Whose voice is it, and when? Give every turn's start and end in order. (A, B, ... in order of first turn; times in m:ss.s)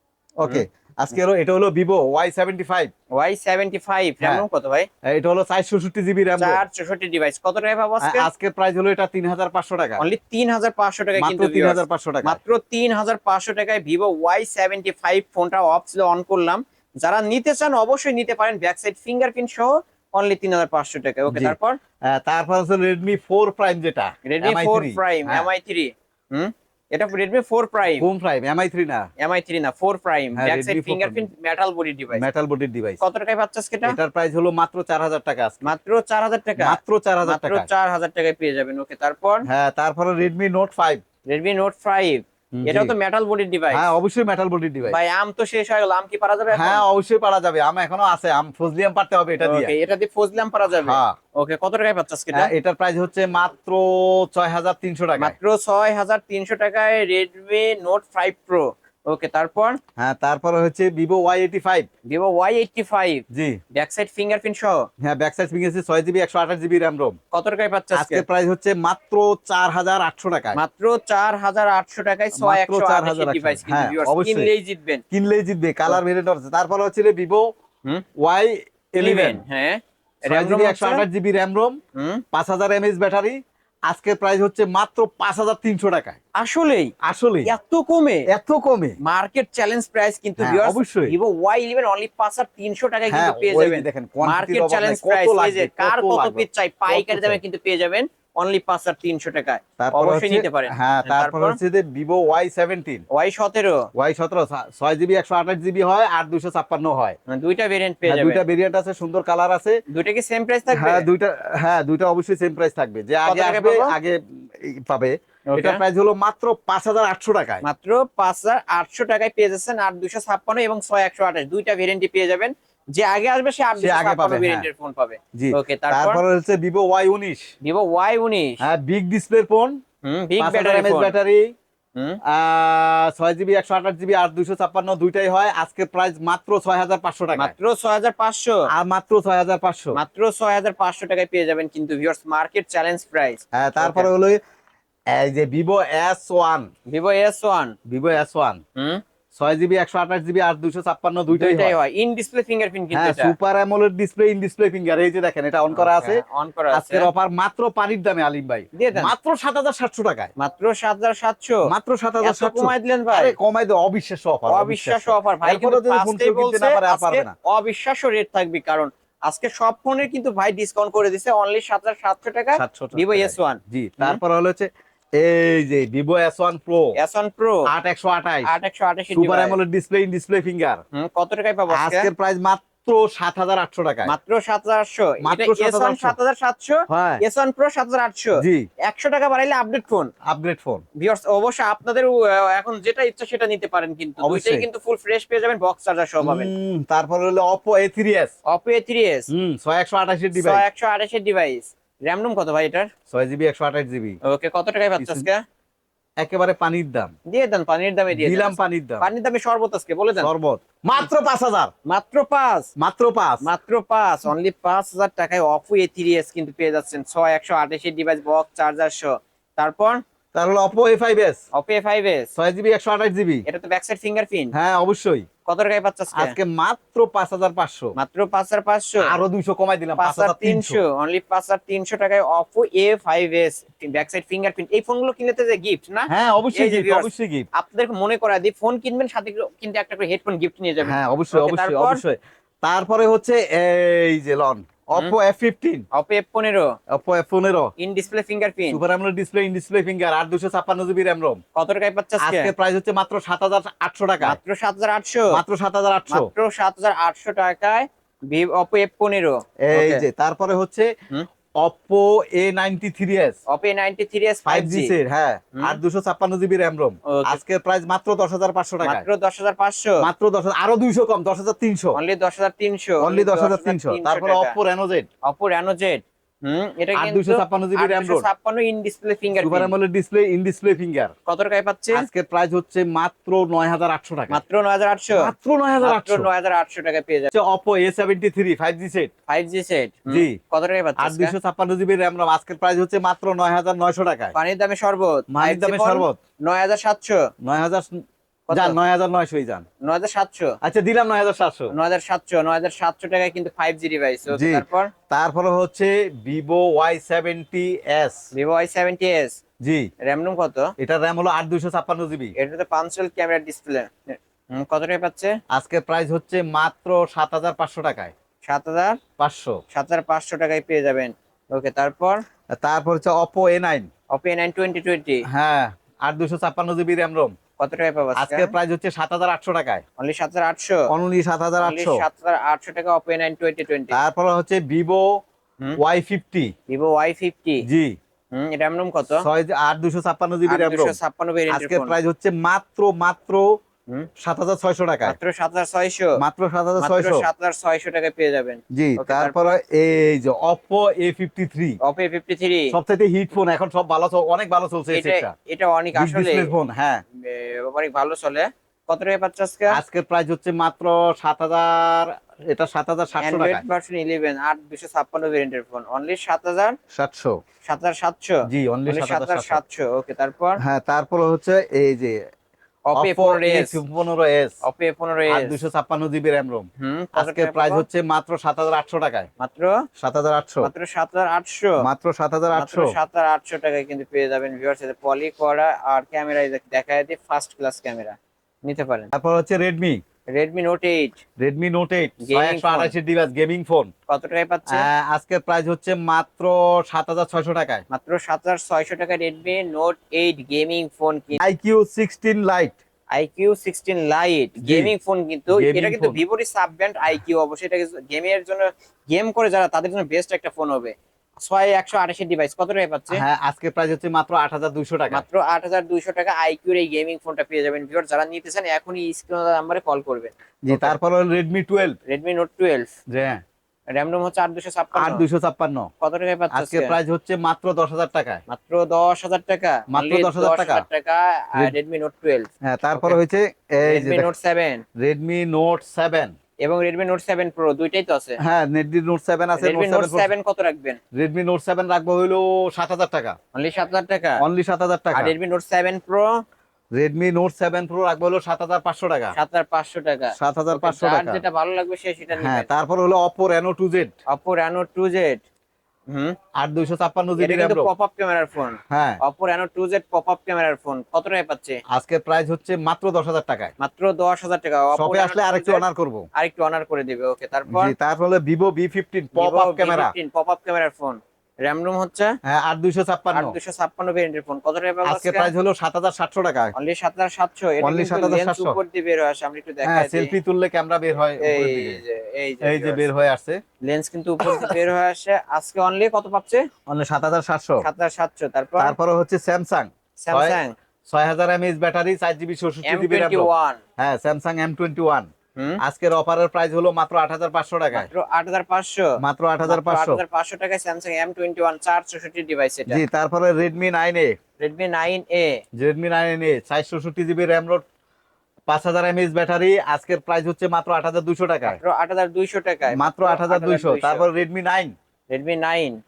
0:00.4-0:02.9 A
0:03.1-0:04.9 B
0:05.1-0:06.6 A
0:06.4-0:08.3 B
0:08.0-0:10.0 A
0:10.0-0:21.8 B
0:11.2-0:12.4 A
0:21.3-0:21.6 A
0:22.1-0:25.5 A
0:24.2-0:28.0 B
0:28.0-0:29.1 A
0:29.2-0:32.2 B
0:30.3-0:31.2 A
0:32.1-0:33.0 A
0:33.0-0:34.0 B
0:33.8-0:35.7 A
0:35.6-0:39.4 B
0:36.6-0:37.7 A
0:39.4-0:41.0 A
0:41.3-0:43.9 B
0:42.6-0:42.9 A
0:43.7-0:45.0 A
0:44.9-0:46.8 B
0:46.5-0:49.7 A
0:49.4-0:52.5 B
0:50.7-0:51.2 A
0:52.3-0:55.3 A
0:55.2-0:59.8 B
1:00.0-1:01.9 A
1:02.1-1:04.8 B
1:03.3-1:03.6 A
1:05.0-1:07.1 A
1:07.3-1:08.2 B
1:07.9-1:10.6 A
1:10.5-1:15.0 B
1:12.4-1:14.5 A
1:15.1-1:17.4 A
1:18.2-1:19.4 A
1:19.0-1:21.0 B
1:20.3-1:21.8 A
1:21.9-1:22.2 B
1:22.3-1:23.3 A
1:23.9-1:26.2 A
1:26.4-1:26.9 B
1:27.0-1:27.5 A
1:27.4-1:28.2 B
1:28.3-1:29.0 A
1:29.0-1:41.6 B
1:30.4-1:31.1 A
1:33.1-1:37.4 A
1:39.8-1:43.0 A
1:43.1-1:43.9 B
1:43.9-1:47.2 A
1:47.3-1:48.4 B
1:48.0-1:49.8 A
1:49.9-1:51.0 B
1:50.7-1:57.6 A
1:53.2-1:53.9 B
1:55.5-1:55.8 B
1:57.6-2:06.2 B
2:03.8-2:04.7 A
2:05.4-2:07.5 A
2:07.6-2:08.6 B
2:08.6-2:09.8 A
2:10.0-2:11.1 B
2:10.4-2:11.5 A
2:12.3-2:17.5 A
2:17.4-2:18.7 B
2:18.7-2:20.0 A
2:19.9-2:24.1 B
2:23.5-2:24.4 A
2:25.1-2:26.7 A
2:26.9-2:27.8 B
2:27.9-2:28.6 A
2:28.8-2:29.0 B
2:29.4-2:31.8 A
2:31.3-2:33.4 B
2:32.9-2:40.3 A
2:35.7-2:37.1 B
2:38.7-2:39.1 B
2:40.4-2:41.6 B
2:41.6-2:47.3 A
2:42.2-2:43.4 B
2:44.5-2:54.2 B
2:52.6-2:54.7 A
2:55.2-2:57.0 A
2:57.0-2:57.6 B
2:57.6-2:58.5 A
2:58.4-2:59.6 B
2:59.1-3:00.8 A
3:00.9-3:02.1 B
3:01.7-3:04.1 A
3:04.0-3:10.1 B
3:05.2-3:06.2 A
3:06.9-3:07.2 A
3:08.4-3:08.7 A
3:10.3-3:10.8 A
3:11.0-3:16.5 B
3:14.2-3:14.6 A
3:16.2-3:18.3 A
3:18.5-3:19.3 B
3:19.3-3:20.6 A
3:20.3-3:22.9 B
3:23.1-3:24.2 A
3:24.2-3:25.4 B
3:25.0-3:25.3 A
3:26.2-3:27.1 A
3:27.3-3:30.3 B
3:28.1-3:29.1 A
3:30.2-3:31.7 A
3:31.9-3:32.7 B
3:32.8-3:33.4 A
3:33.4-3:40.0 B
3:40.3-3:41.4 A
3:41.5-3:42.3 B
3:42.3-3:43.4 A
3:43.4-3:44.5 B
3:44.5-3:45.2 A
3:45.4-3:46.4 B
3:46.1-3:47.9 A
3:48.0-3:49.2 B
3:49.0-3:50.8 A
3:50.0-4:02.0 B
3:56.1-3:57.5 A
4:00.8-4:05.8 A
4:05.9-4:06.7 B
4:06.9-4:07.7 A
4:07.8-4:08.8 B
4:08.7-4:11.4 A
4:11.5-4:12.5 B
4:12.2-4:14.4 A
4:14.2-4:15.4 B
4:15.3-4:16.3 A
4:16.1-4:20.0 B
4:19.6-4:20.9 A
4:21.6-4:23.4 A
4:23.5-4:24.9 B
4:24.4-4:29.0 A
4:27.1-4:27.4 B
4:28.8-4:30.0 B
4:30.0-4:32.0 A
4:31.9-4:34.5 B
4:33.0-4:35.1 A
4:35.2-4:39.7 B
4:37.0-4:38.3 A
4:39.4-4:41.1 A
4:41.3-4:42.0 B
4:41.9-4:44.4 A
4:44.3-4:47.3 B
4:45.1-4:46.3 A
4:47.3-4:49.1 A
4:49.3-4:51.3 B
4:50.1-4:50.4 A
4:51.0-4:54.3 A
4:54.3-4:57.2 B
4:55.3-4:56.2 A
4:57.4-4:58.0 A
4:58.5-4:58.8 B
4:58.5-4:59.6 A
4:59.8-5:00.6 B
5:00.6-5:01.7 A
5:01.7-5:04.9 B
5:04.3-5:08.2 A
5:08.3-5:09.4 B
5:09.6-5:09.9 A
5:10.0-5:10.7 B
5:10.8-5:12.3 A
5:12.4-5:15.3 B
5:15.5-5:18.1 A
5:18.4-5:19.0 B
5:19.2-5:19.6 A
5:19.7-5:22.2 B
5:22.6-5:23.9 A
5:24.1-5:25.2 B
5:25.3-5:27.3 A
5:27.6-5:28.5 B
5:28.2-5:29.8 A
5:30.0-5:30.8 B
5:30.9-5:32.0 A
5:31.6-5:34.0 B
5:33.9-5:35.0 A
5:35.8-5:36.5 A
5:36.7-5:37.6 B
5:37.6-5:37.9 A
5:38.3-5:39.2 B
5:39.2-5:41.0 A
5:40.5-5:41.9 B
5:41.5-5:43.4 A
5:44.2-5:45.1 A
5:45.0-5:46.2 B
5:46.2-5:47.2 A
5:46.8-5:49.5 B
5:48.7-5:51.8 A
5:51.8-5:52.7 B
5:52.7-5:55.3 A
5:54.9-5:56.5 B
5:55.9-5:57.0 A
5:57.2-5:59.8 B
5:59.7-6:03.6 A
6:03.2-6:06.8 B
6:06.9-6:07.4 A
6:07.6-6:10.6 B
6:08.5-6:09.6 A
6:10.6-6:12.2 A
6:12.9-6:13.8 B
6:13.0-6:14.6 A
6:14.6-6:15.6 B
6:15.3-6:19.3 A
6:16.8-6:17.8 B
6:19.4-6:19.7 B
6:20.0-6:20.7 A
6:20.6-6:21.8 B
6:21.8-6:22.9 A
6:22.5-6:29.1 B
6:29.1-6:30.0 A
6:30.3-6:31.2 B
6:31.4-6:33.9 A
6:32.2-6:32.9 B
6:34.1-6:34.8 B
6:34.7-6:37.8 A
6:37.9-6:41.4 B
6:41.4-6:42.8 A
6:43.1-6:53.2 B
6:44.6-6:44.9 A
6:45.5-6:46.2 A
6:53.1-6:55.2 A
6:55.1-7:01.0 B
7:00.6-7:02.0 A
7:02.1-7:02.9 B
7:03.1-7:03.4 A
7:03.9-7:05.2 B
7:04.9-7:05.9 A
7:06.0-7:06.9 B
7:06.5-7:08.4 A
7:08.5-7:13.2 B
7:09.9-7:10.8 A
7:12.6-7:14.3 A
7:13.8-7:14.8 B
7:15.0-7:16.3 A
7:16.6-7:18.4 B
7:18.4-7:20.3 A
7:19.6-7:21.0 B
7:21.2-7:23.4 A
7:23.5-7:24.4 B
7:24.4-7:25.3 A
7:25.1-7:26.3 B
7:26.9-7:29.4 A
7:29.3-7:32.7 B
7:30.4-7:31.4 A
7:32.4-7:34.1 A
7:34.3-7:35.4 B
7:36.1-7:36.4 B
7:36.6-7:37.9 A
7:37.4-7:41.8 B
7:38.9-7:39.2 A
7:41.9-7:43.7 A
7:43.8-7:45.8 B
7:44.9-7:46.2 A
7:46.3-7:47.9 B
7:47.7-7:50.1 A
7:49.3-7:52.4 B
7:52.4-7:53.5 A
7:53.3-7:55.5 B
7:55.0-7:56.7 A
7:56.7-8:00.3 B
7:57.8-7:58.8 A
7:59.8-8:02.0 A
8:01.4-8:03.0 B
8:02.6-8:03.6 A
8:03.8-8:06.6 B
8:04.4-8:04.8 A
8:06.9-8:07.8 A
8:07.8-8:09.0 B
8:08.8-8:15.3 A
8:10.2-8:10.7 B
8:12.8-8:13.8 B
8:15.8-8:18.1 A
8:17.9-8:23.0 B
8:19.2-8:20.2 A
8:22.9-8:24.4 A
8:24.6-8:25.5 B
8:25.8-8:27.8 A
8:28.7-8:31.8 A
8:31.6-8:34.3 B
8:32.9-8:34.9 A
8:35.3-8:36.0 B